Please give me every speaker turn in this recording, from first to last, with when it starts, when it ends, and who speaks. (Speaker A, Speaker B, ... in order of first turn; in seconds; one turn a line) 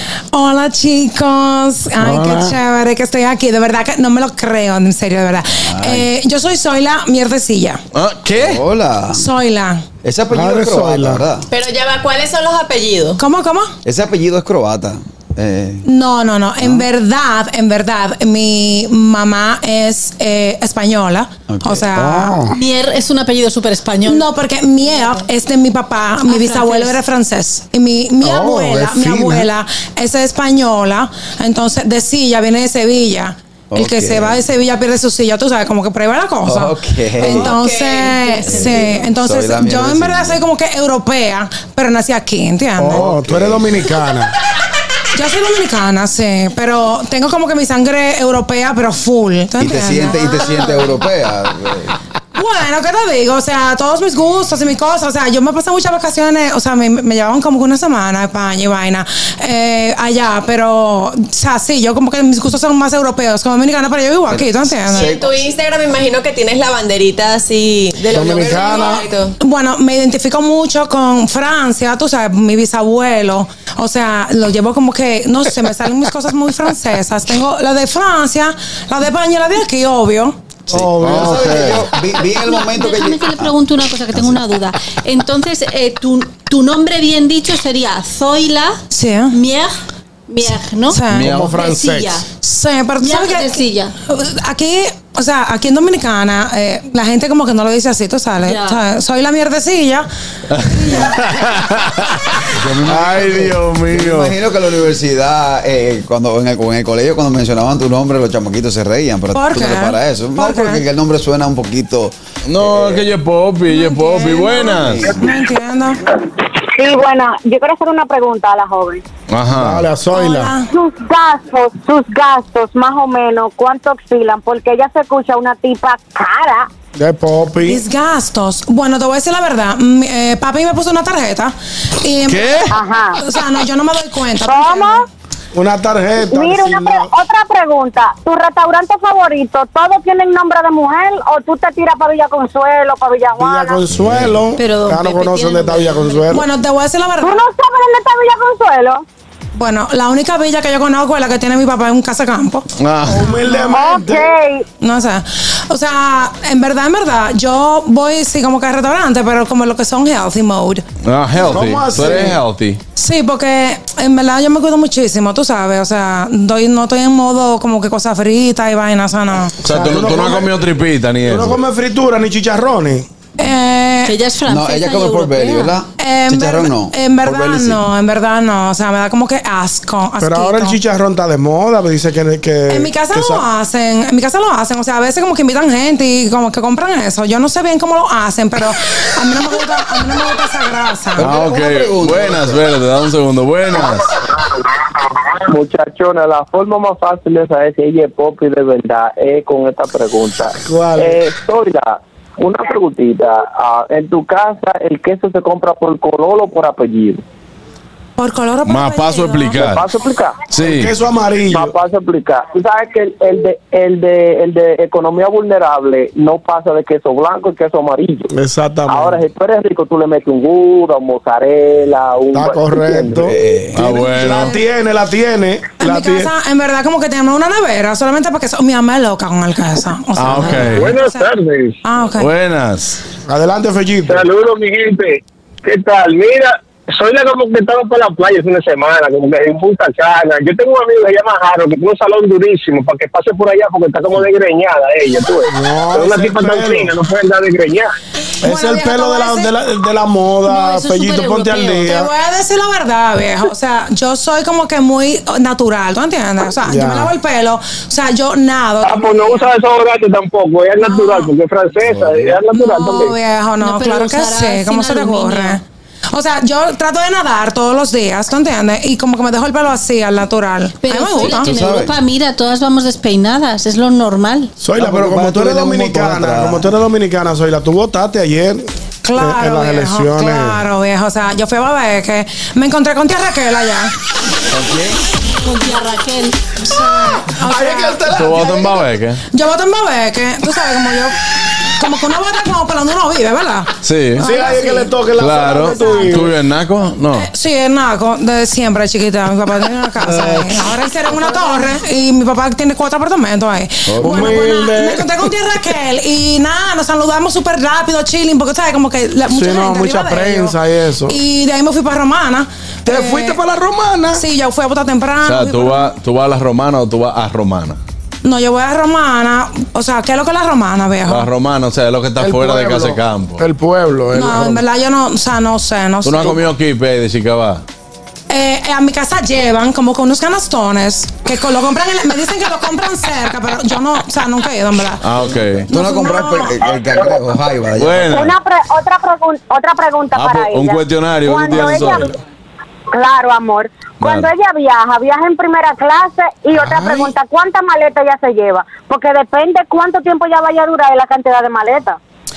Speaker A: 0.3-7.8
Speaker B: 2.0-2.5
Speaker C: 5.6-6.1
Speaker B: 7.9-8.6
Speaker C: 8.4-9.3
Speaker A: 9.1-9.8
Speaker C: 10.0-11.5
Speaker D: 10.3-11.2
Speaker E: 11.5-13.2
Speaker A: 13.2-13.7
Speaker C: 13.8-15.8
Speaker A: 15.8-22.4
Speaker C: 21.5-22.5
Speaker F: 22.5-24.3
Speaker A: 24.1-43.1
Speaker F: 24.9-25.2
Speaker F: 26.2-27.0
Speaker D: 28.2-29.5
Speaker C: 33.7-34.4
Speaker C: 36.5-37.6
Speaker F: 37.5-38.8
Speaker C: 38.5-40.4
Speaker D: 42.8-44.3
Speaker C: 42.9-43.8
Speaker A: 45.1-50.7
Speaker C: 49.6-51.9
Speaker A: 52.4-65.2
Speaker C: 64.3-65.4
Speaker E: 64.9-69.3
Speaker D: 68.1-69.1
Speaker A: 69.4-80.4
Speaker C: 80.7-84.4
Speaker B: 80.7-81.8
Speaker D: 80.8-81.6
Speaker F: 82.3-88.8
Speaker A: 88.9-89.4
Speaker F: 89.3-89.7
Speaker F: 90.3-92.2
Speaker A: 90.9-91.3
Speaker D: 91.1-92.2
Speaker B: 91.2-91.5
Speaker A: 92.4-101.3
Speaker F: 93.0-93.9
Speaker F: 98.4-98.8
Speaker B: 100.5-104.4
Speaker C: 102.5-113.0
Speaker A: 109.3-110.8
Speaker B: 112.5-115.1
Speaker A: 113.7-116.0
Speaker C: 114.7-115.2
Speaker G: 116.4-119.0
Speaker B: 119.3-119.9
Speaker D: 119.5-120.5
Speaker A: 120.1-120.7
Speaker G: 120.7-126.7
Speaker D: 127.0-127.8
Speaker A: 127.6-135.1
Speaker B: 132.3-132.7
Speaker G: 132.7-133.2
Speaker G: 134.4-135.1
Speaker D: 135.5-137.1
Speaker G: 136.3-143.8
Speaker D: 143.4-146.4
Speaker B: 144.0-144.4
Speaker F: 144.6-146.4
Speaker A: 146.3-147.4
Speaker G: 147.2-149.1
Speaker A: 149.6-152.7
Speaker B: 152.8-153.3
Speaker D: 153.1-154.3
Speaker A: 153.2-153.7
Speaker G: 153.6-154.7
Speaker A: 154.8-160.8
Speaker B: 161.0-162.8
Speaker D: 161.4-162.4
Speaker A: 163.0-169.6
Speaker D: 169.6-170.6
Speaker B: 169.7-171.6
Speaker D: 171.2-173.1
Speaker A: 173.4-174.2
Speaker F: 174.1-175.8
Speaker C: 174.5-177.8
Speaker A: 176.0-180.8
Speaker D: 180.2-183.4
Speaker A: 182.7-191.3
Speaker C: 191.2-192.6
Speaker B: 191.2-194.1
Speaker H: 195.5-207.2
Speaker D: 200.5-201.2
Speaker A: 208.2-209.6
Speaker B: 208.7-209.8
Speaker H: 209.6-210.4
Speaker B: 210.5-210.9
Speaker D: 210.6-211.7
Speaker H: 211.5-218.3
Speaker D: 218.3-219.2
Speaker H: 218.9-223.3
Speaker D: 222.3-226.3
Speaker C: 223.2-223.9
Speaker B: 223.7-224.5
Speaker A: 224.2-224.6
Speaker A: 225.8-231.3
Speaker B: 230.2-230.9
Speaker I: 230.7-231.8
Speaker A: 231.8-232.3
Speaker B: 232.2-233.0
Speaker D: 233.3-234.2
Speaker I: 234.1-247.9
Speaker D: 245.5-246.9
Speaker A: 248.4-249.5
Speaker D: 248.4-252.1
Speaker A: 250.5-259.5
Speaker F: 251.6-251.8
Speaker D: 256.6-257.1
Speaker I: 258.8-263.1
Speaker A: 260.8-261.3
Speaker A: 262.5-271.6
Speaker F: 263.6-265.6
Speaker F: 270.8-274.5
Speaker C: 271.3-272.0
Speaker D: 274.6-280.6
Speaker C: 274.8-276.7
Speaker A: 279.0-283.9
Speaker C: 284.5-285.0
Speaker F: 285.4-286.4
Speaker A: 286.6-288.4
Speaker D: 287.4-288.8
Speaker B: 288.1-289.2
Speaker A: 289.3-294.9
Speaker B: 293.8-294.2
Speaker D: 294.2-296.4
Speaker B: 295.2-297.3
Speaker A: 295.5-296.2
Speaker A: 297.1-313.4
Speaker C: 303.9-304.4
Speaker D: 304.0-305.3
Speaker D: 309.3-311.2
Speaker D: 312.9-314.2
Speaker A: 314.1-315.9
Speaker B: 315.2-317.8
Speaker A: 318.2-321.3
Speaker B: 321.1-323.4
Speaker D: 322.2-324.6
Speaker A: 324.1-326.4
Speaker B: 326.0-327.6
Speaker A: 328.3-335.0
Speaker B: 335.0-335.7
Speaker C: 335.6-338.2
Speaker A: 335.7-336.6
Speaker B: 337.8-338.4
Speaker G: 338.1-342.2
Speaker B: 340.1-342.2
Speaker G: 342.9-352.0
Speaker B: 344.0-344.3